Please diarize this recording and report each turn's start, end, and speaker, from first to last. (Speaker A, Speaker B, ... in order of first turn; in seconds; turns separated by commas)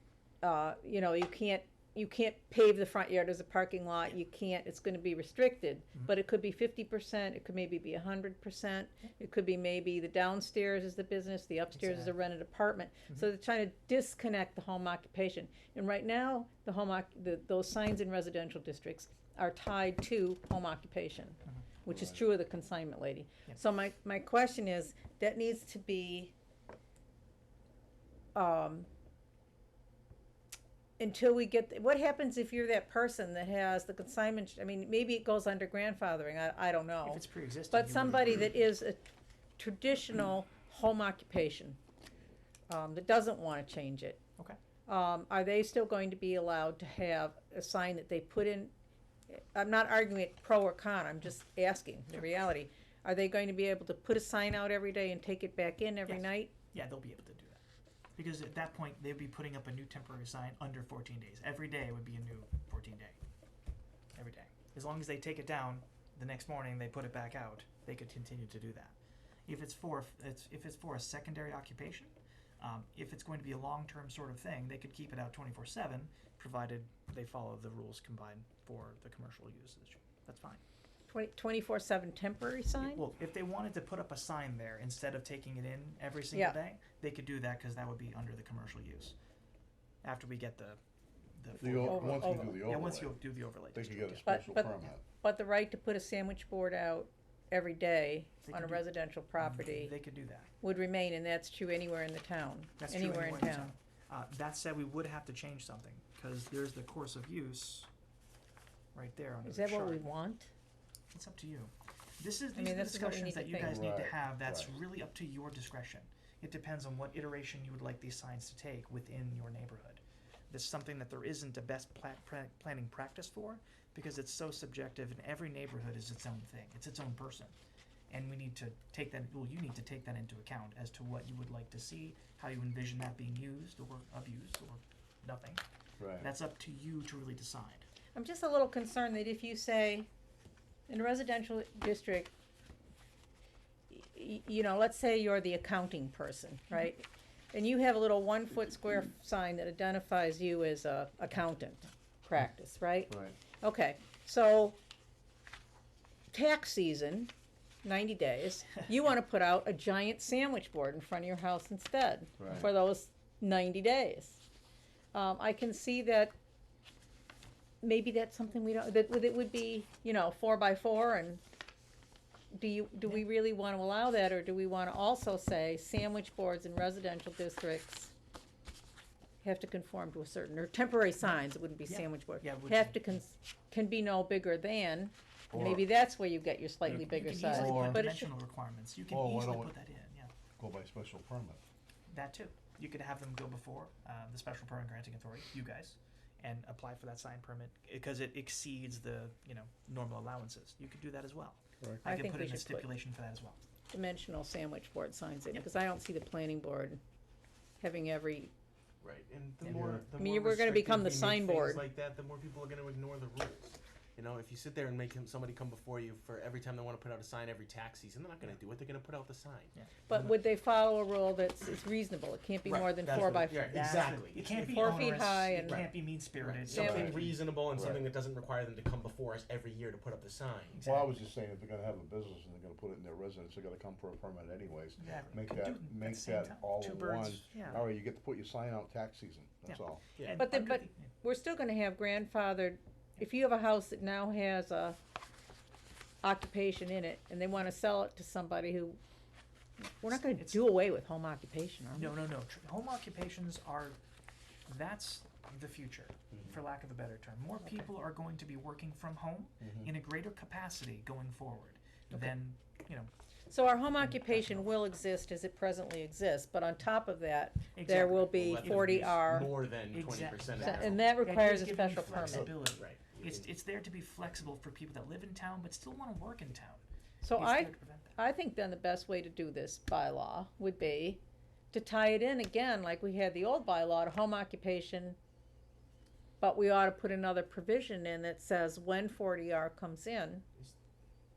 Speaker A: 0.4-26.3, Speaker B: 11.8-12.1, Speaker C: 21.9-22.2, Speaker A: 28.3-28.9, Speaker A: 31.0-39.0, Speaker B: 37.0-38.5, Speaker A: 39.6-41.8, Speaker A: 42.7-44.2, Speaker A: 44.9-48.7, Speaker A: 49.3-56.5, Speaker B: 56.1-57.6, Speaker B: 58.2-63.2, Speaker B: 64.2-69.0, Speaker B: 69.5-80.6, Speaker A: 81.1-83.0, Speaker B: 82.8-89.2, Speaker B: 90.0-90.8, Speaker B: 91.3-94.3, Speaker C: 91.6-93.2, Speaker A: 91.8-92.6, Speaker C: 93.7-95.0, Speaker A: 94.3-99.9, Speaker B: 98.4-98.8, Speaker B: 99.4-100.5, Speaker A: 100.6-103.8, Speaker B: 102.8-107.9, Speaker B: 108.9-110.1, Speaker A: 109.5-110.5, Speaker B: 111.1-127.5, Speaker A: 112.6-113.8, Speaker C: 113.6-114.8, Speaker B: 128.1-135.6, Speaker C: 136.0-136.3, Speaker B: 136.2-137.8, Speaker A: 138.2-140.1, Speaker A: 140.9-142.3, Speaker A: 143.9-154.8, Speaker C: 153.1-153.4, Speaker A: 156.3-157.3, Speaker A: 157.8-164.4, Speaker C: 162.4-162.7, Speaker A: 165.1-166.3, Speaker A: 167.8-171.4, Speaker A: 172.5-178.1, Speaker A: 179.4-188.3, Speaker B: 181.8-183.2, Speaker C: 185.5-185.8, Speaker B: 186.9-190.3, Speaker C: 187.5-188.0, Speaker C: 189.1-189.7, Speaker C: 190.6-191.6, Speaker B: 192.1-203.6, Speaker A: 202.0-202.9, Speaker A: 203.9-207.0, Speaker A: 207.8-208.5, Speaker D: 209.0-219.7, Speaker B: 209.6-210.0, Speaker C: 209.8-210.0, Speaker A: 210.1-211.8, Speaker A: 220.1-225.9, Speaker D: 222.7-230.8, Speaker B: 223.1-227.3, Speaker A: 226.7-227.2, Speaker C: 226.8-228.1, Speaker B: 230.7-231.2, Speaker C: 230.8-240.1, Speaker B: 235.0-237.9, Speaker B: 239.7-241.1, Speaker D: 240.2-240.5, Speaker A: 240.4-245.0, Speaker A: 246.2-249.0, Speaker A: 249.8-252.1, Speaker B: 250.1-250.6, Speaker B: 251.9-254.0, Speaker B: 254.7-263.1, Speaker A: 263.5-269.6, Speaker B: 264.0-264.6, Speaker B: 267.8-276.8, Speaker D: 268.4-271.1, Speaker A: 270.6-272.5, Speaker D: 272.1-273.5, Speaker A: 277.2-285.2, Speaker B: 277.4-278.2, Speaker A: 286.4-290.4